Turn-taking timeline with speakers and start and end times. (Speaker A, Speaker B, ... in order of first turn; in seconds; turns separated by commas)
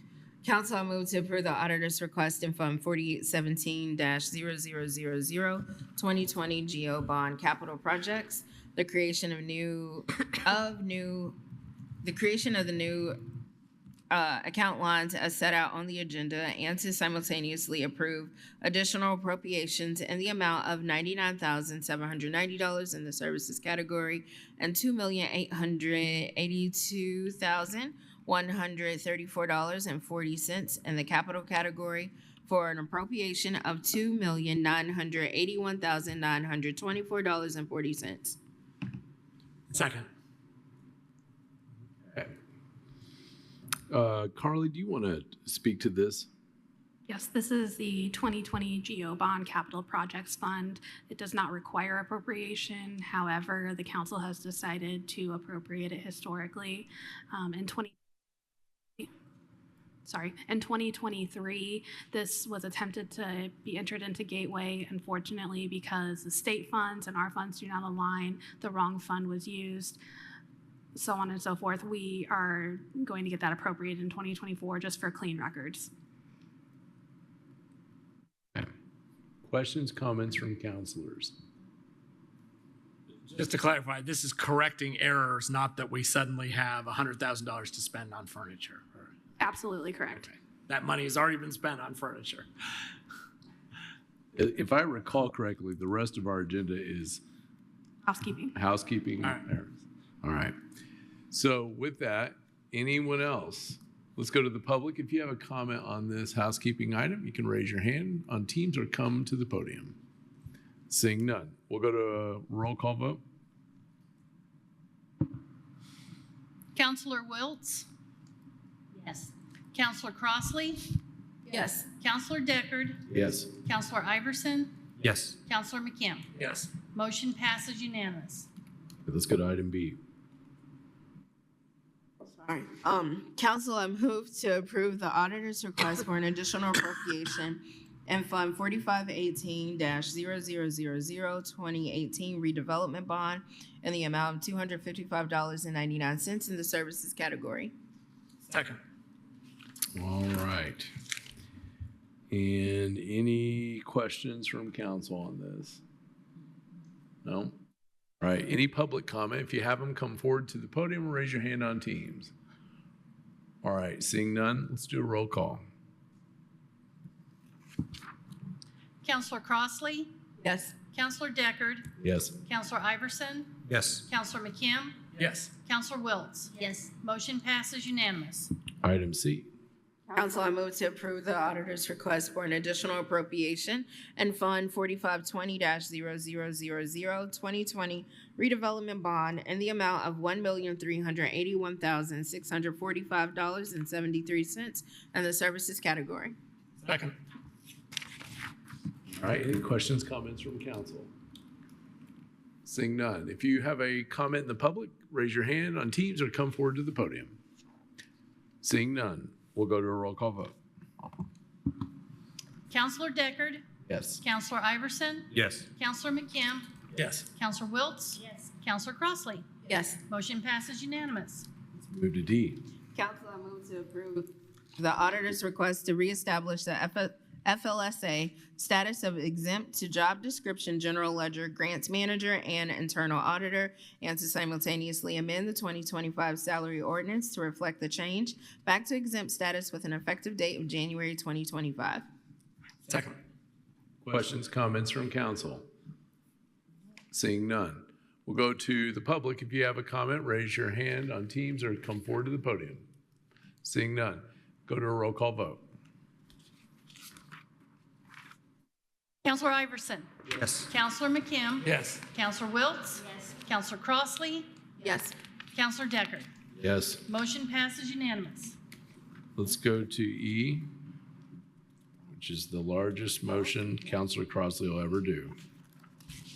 Speaker A: 0.4-11.4, Speaker A: 12.0-13.2, Speaker A: 14.1-38.4, Speaker B: 39.7-40.1, Speaker C: 43.9-46.3, Speaker D: 47.1-57.9, Speaker D: 60.0-70.0, Speaker D: 71.0-75.9, Speaker C: 79.5-81.3, Speaker B: 83.3-89.1, Speaker D: 89.4-90.3, Speaker B: 90.7-92.5, Speaker C: 94.4-97.2, Speaker D: 98.0-98.5, Speaker C: 98.5-100.6, Speaker C: 101.3-110.0, Speaker C: 110.9-113.2, Speaker E: 116.8-117.9, Speaker E: 119.0-120.9, Speaker A: 121.5-121.9, Speaker E: 122.0-123.0, Speaker C: 123.1-123.5, Speaker E: 123.7-124.8, Speaker E: 125.5-126.3, Speaker B: 126.4-126.7, Speaker E: 126.9-128.5, Speaker C: 129.1-130.0, Speaker A: 132.2-147.7, Speaker B: 148.5-148.8, Speaker C: 149.9-150.9, Speaker C: 152.3-155.8, Speaker C: 157.2-157.5, Speaker C: 158.2-162.3, Speaker C: 163.6-165.6, Speaker E: 169.0-170.1, Speaker A: 170.4-170.7, Speaker E: 170.9-171.9, Speaker C: 172.0-172.3, Speaker E: 172.4-173.5, Speaker B: 173.7-174.0, Speaker E: 174.1-175.0, Speaker B: 175.2-175.5, Speaker E: 175.6-178.5, Speaker C: 178.8-179.5, Speaker A: 180.1-196.3, Speaker B: 196.8-197.1, Speaker C: 199.2-201.1, Speaker C: 202.7-207.4, Speaker C: 208.6-210.5, Speaker E: 212.7-213.6, Speaker C: 213.9-214.2, Speaker E: 214.2-216.7, Speaker B: 216.9-217.2, Speaker E: 217.3-219.5, Speaker A: 219.7-220.0, Speaker E: 220.1-221.5, Speaker C: 221.9-222.6, Speaker A: 222.9-242.0, Speaker B: 242.9-243.2, Speaker C: 244.1-245.7, Speaker C: 247.1-252.8, Speaker C: 253.6-255.6, Speaker E: 259.2-260.1, Speaker B: 260.4-260.7, Speaker E: 260.7-264.5, Speaker B: 261.6-262.0, Speaker A: 264.8-265.1, Speaker E: 265.5-266.3, Speaker C: 266.6-267.0, Speaker E: 267.1-268.6, Speaker C: 269.4-270.7, Speaker C: 272.1-275.3